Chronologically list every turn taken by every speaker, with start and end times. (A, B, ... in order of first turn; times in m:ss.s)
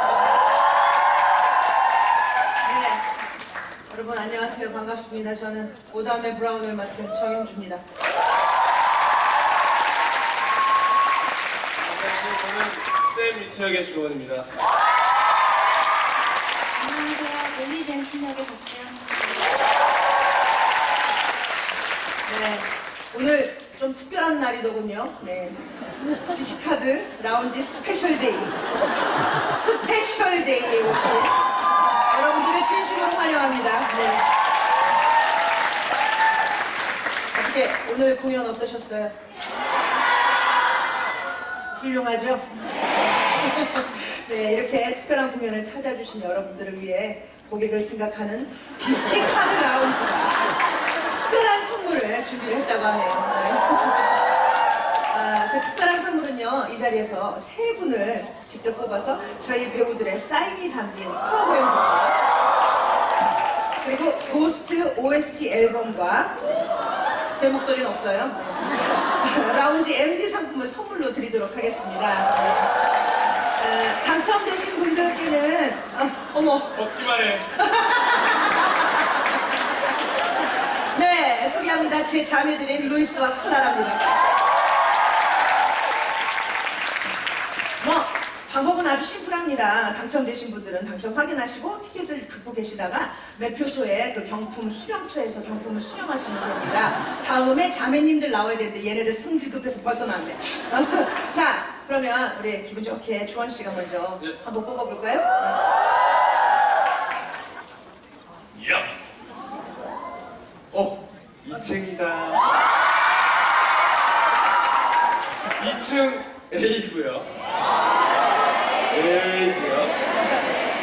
0:02.6-0:03.0 A
0:03.9-0:07.8 A
0:11.8-0:14.5 B
0:16.8-0:19.5 C
0:22.2-0:28.6 A
0:29.2-0:31.4 A
0:32.1-0:34.2 A
0:37.3-0:39.1 A
0:41.7-0:42.4 A
0:43.4-0:54.1 A
0:55.1-1:02.2 A
1:03.8-1:06.4 A
1:07.3-1:12.7 A
1:13.6-1:17.0 A
1:16.8-1:17.5 B
1:17.5-1:18.9 A
1:20.4-1:24.3 A
1:27.8-1:45.6 A
1:48.6-1:48.9 B
1:50.7-1:52.5 B
1:55.6-1:57.3 B
1:58.9-2:00.0 B